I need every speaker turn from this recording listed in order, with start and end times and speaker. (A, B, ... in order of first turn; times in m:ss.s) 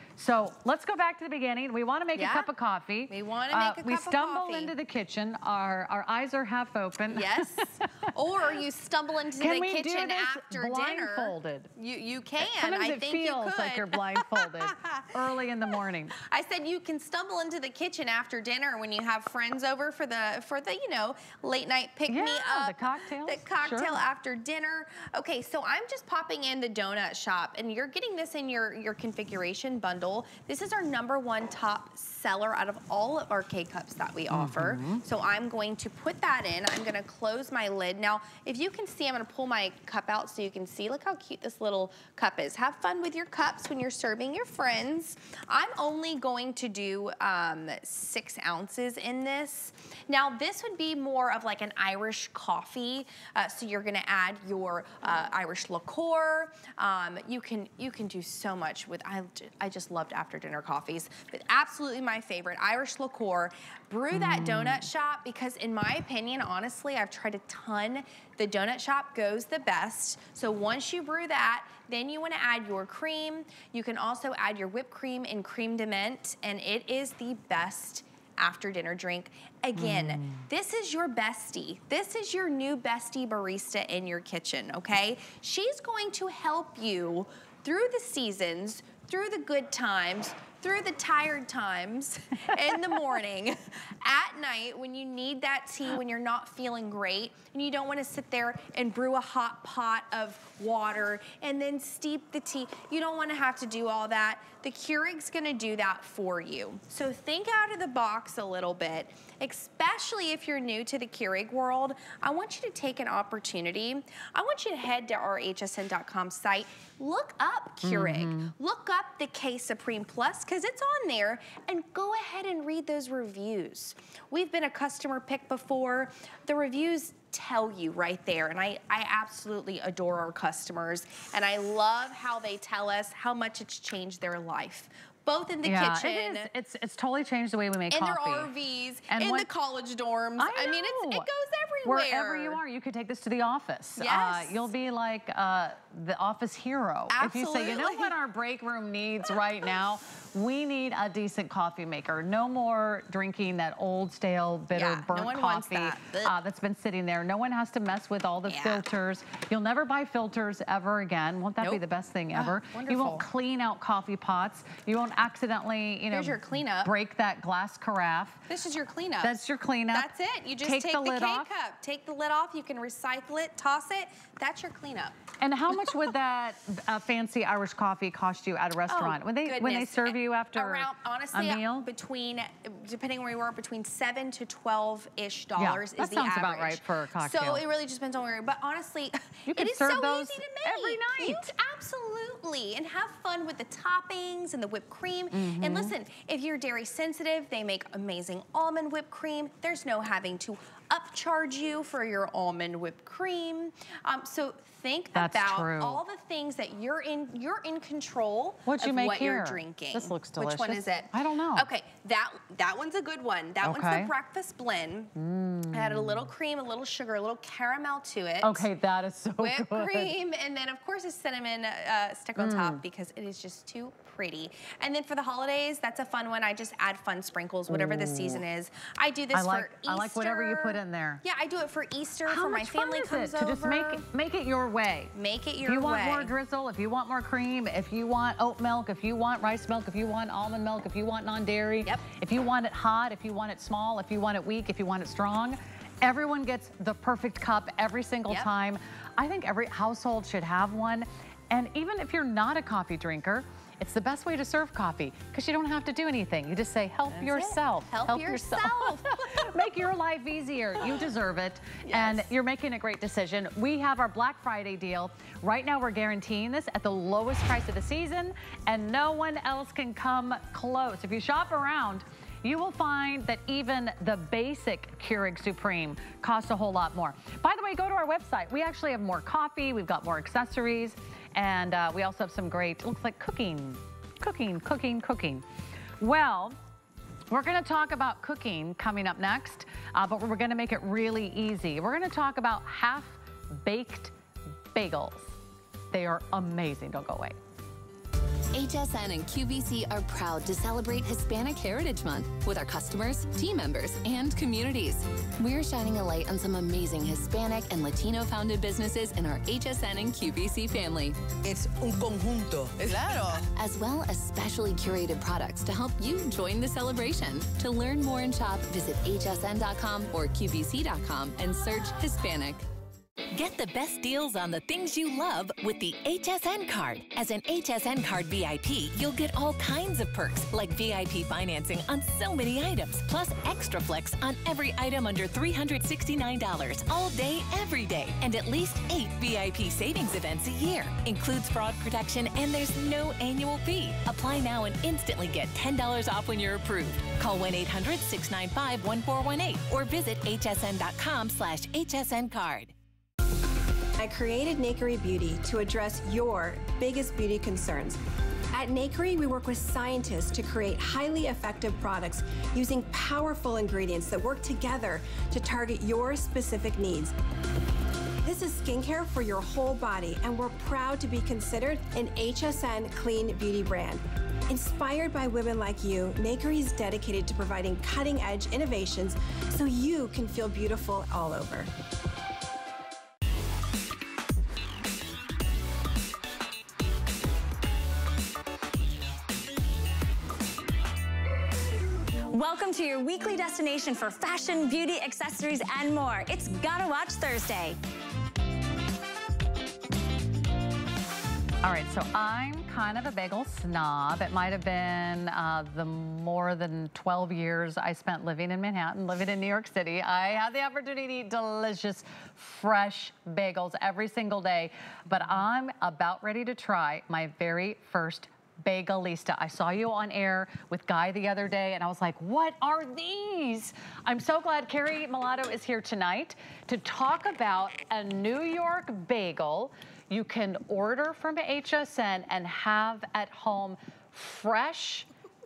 0:00.2-0:07.9 A
0:02.2-0:02.5 B
0:03.1-0:04.8 B
0:07.1-0:15.1 B
0:09.4-0:11.7 A
0:12.4-0:16.2 A
0:16.2-2:16.5 B
0:22.1-0:24.0 A
0:34.3-0:35.0 A
1:04.1-1:04.9 A
1:19.8-1:20.5 A
1:57.8-1:58.5 A
2:15.6-2:18.5 A
2:17.9-2:22.6 B
2:19.1-2:19.5 A
2:20.4-2:21.3 A
2:21.8-2:48.4 A
2:24.0-2:24.7 B
2:27.1-2:28.2 B
2:34.7-2:36.4 B
2:38.5-2:38.8 B
2:41.6-2:43.3 B
2:46.1-2:47.0 B
2:48.5-2:55.2 B
2:49.2-2:50.1 A
2:50.6-2:51.5 A
2:55.4-3:01.9 A
2:58.9-3:35.1 B
3:05.6-3:07.6 A
3:09.5-3:11.5 A
3:15.3-3:16.0 A
3:25.2-3:26.0 A
3:28.7-3:31.7 A
3:33.6-3:34.1 A
3:35.2-3:36.3 A
3:35.7-3:38.7 B
3:38.4-3:40.1 A
3:39.4-3:54.0 B
3:42.4-3:42.8 A
3:47.7-3:48.4 A
3:49.3-3:51.2 A
3:52.3-3:55.1 A
3:55.1-3:56.3 B
3:55.6-4:45.4 A
4:17.1-4:19.6 B
4:21.8-4:22.3 B
4:46.0-4:46.6 A
4:47.3-4:54.1 A
4:54.7-4:55.4 A
4:55.9-4:57.4 A
4:58.5-5:22.6 C
5:23.3-5:52.7 D
5:54.0-5:58.0 E
5:58.5-6:07.2 E
6:08.2-6:21.7 E
6:32.3-6:37.8 F
6:41.6-7:15.1 A